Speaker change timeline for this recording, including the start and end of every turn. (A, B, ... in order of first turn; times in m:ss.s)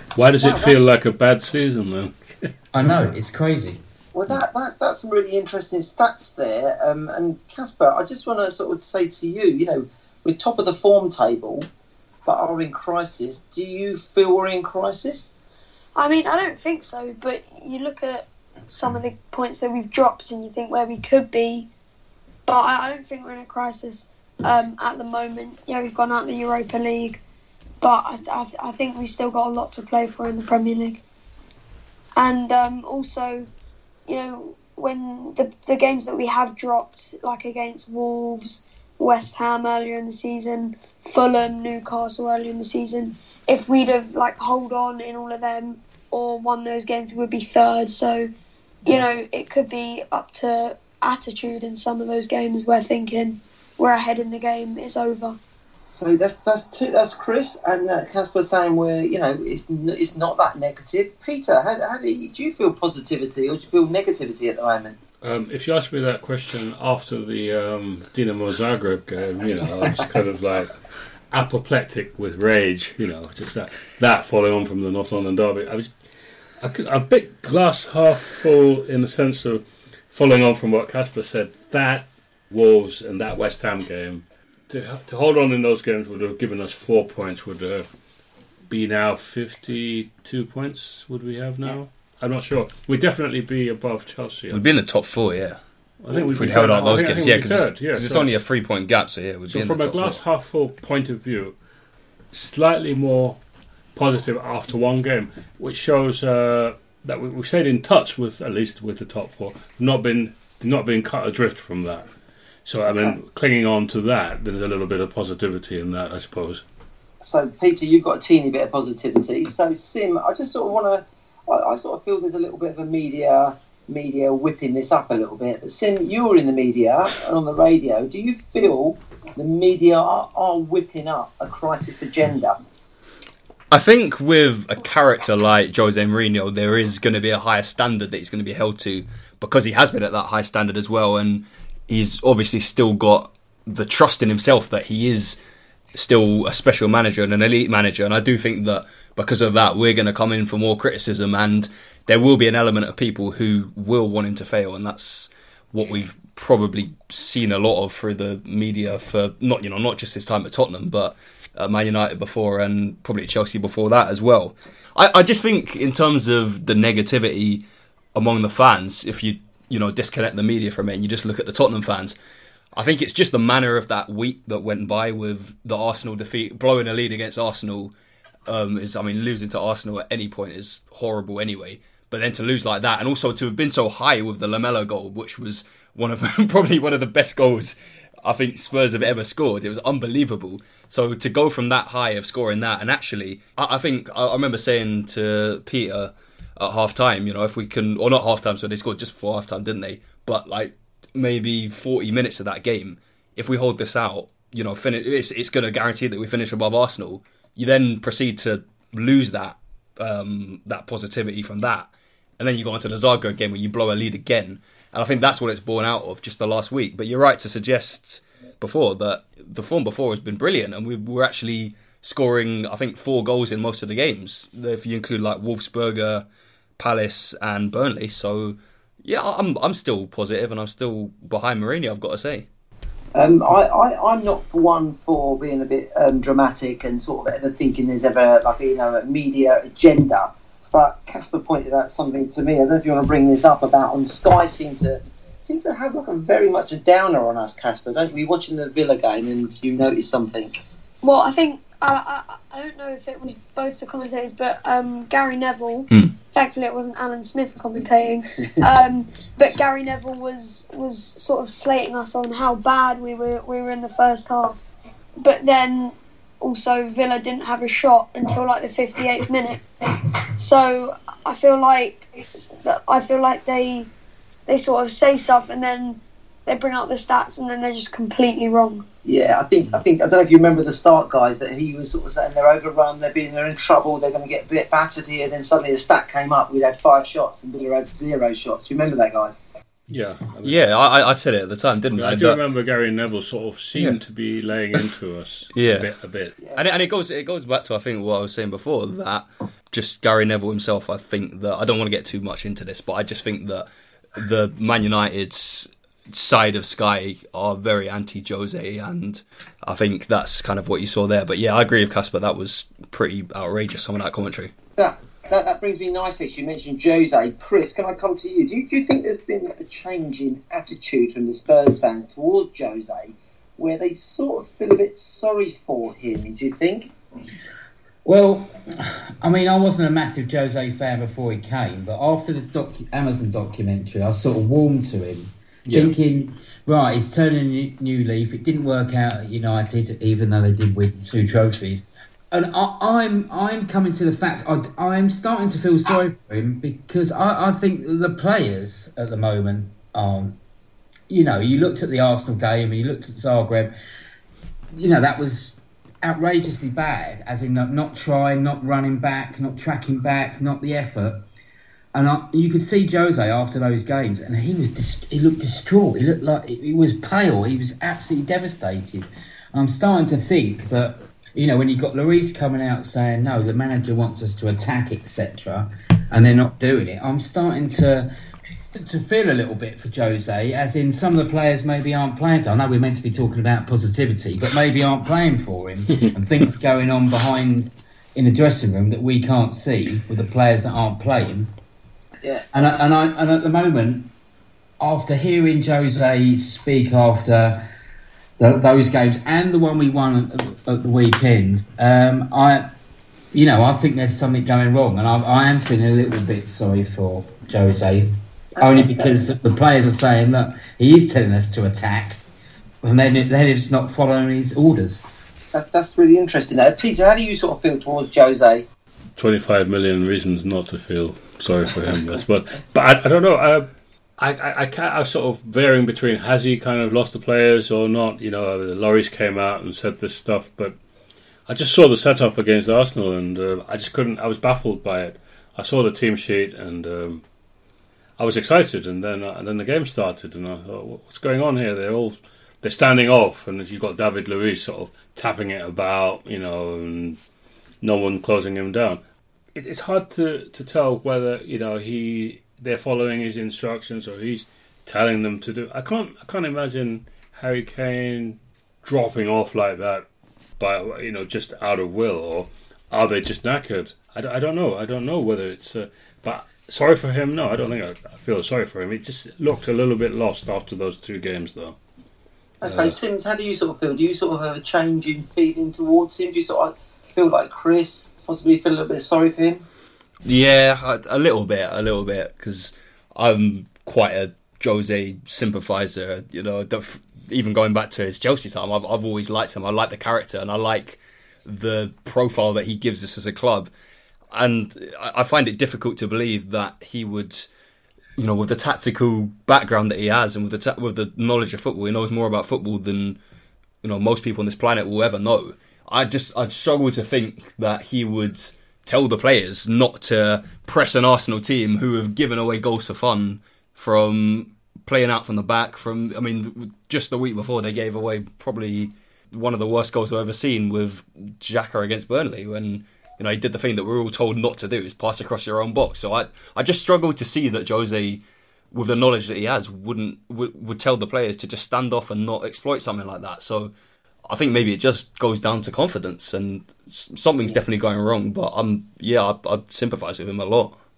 0:00.1-0:02.5 A
0:00.4-0:00.7 B
0:02.7-0:03.8 C
0:04.1-0:11.7 B
0:12.2-0:15.3 B
0:16.0-0:21.7 D
0:22.5-0:27.2 D
0:27.8-0:31.0 D
0:32.2-0:33.5 D
0:34.1-0:48.3 D
0:48.8-0:55.4 D
0:55.9-1:05.0 B
1:05.2-1:10.8 A
1:11.3-1:15.9 A
1:16.6-1:27.9 A
1:28.7-1:34.6 A
1:34.5-1:35.6 E
1:36.0-1:38.3 A
1:36.1-1:40.2 E
1:39.5-1:41.5 A
1:42.3-1:43.4 A
1:44.0-1:52.0 A
1:52.6-1:56.6 A
1:52.9-1:53.2 B
1:57.2-2:12.6 B
2:13.7-2:25.4 E
2:25.9-2:47.6 E
2:48.1-2:52.2 E
2:52.7-2:57.9 E
2:58.4-3:46.2 E
3:46.8-3:52.4 E
3:53.1-4:10.6 B
4:11.0-4:24.7 D
4:25.2-4:29.6 D
4:30.4-4:33.9 D
4:34.5-4:38.8 D
4:39.0-4:49.4 B
4:49.9-4:50.6 A
4:50.4-4:52.4 E
4:51.9-4:56.4 A
4:55.5-4:55.9 E
4:56.5-5:14.5 E
5:14.8-5:26.9 B
5:28.0-5:50.4 C
5:35.6-5:35.9 A
5:51.1-5:53.7 C
5:54.7-6:01.2 C
6:01.9-6:18.1 C
6:18.7-6:31.5 C
6:32.5-6:34.1 C
6:34.8-6:37.6 C
6:38.4-6:42.7 C
6:43.3-6:52.2 C
6:48.6-6:49.1 B
6:52.8-6:55.0 C
6:55.5-6:58.6 B
6:59.2-7:10.8 A
7:11.5-7:17.2 A
7:18.2-7:27.2 A
7:27.8-7:29.0 A
7:29.5-7:40.0 A
7:40.6-7:51.8 A
7:52.6-7:59.6 B
7:52.6-7:52.9 A
8:00.2-8:13.7 E
8:14.3-8:17.5 E
8:18.2-8:23.2 E
8:23.8-8:53.7 E
8:54.3-9:00.7 E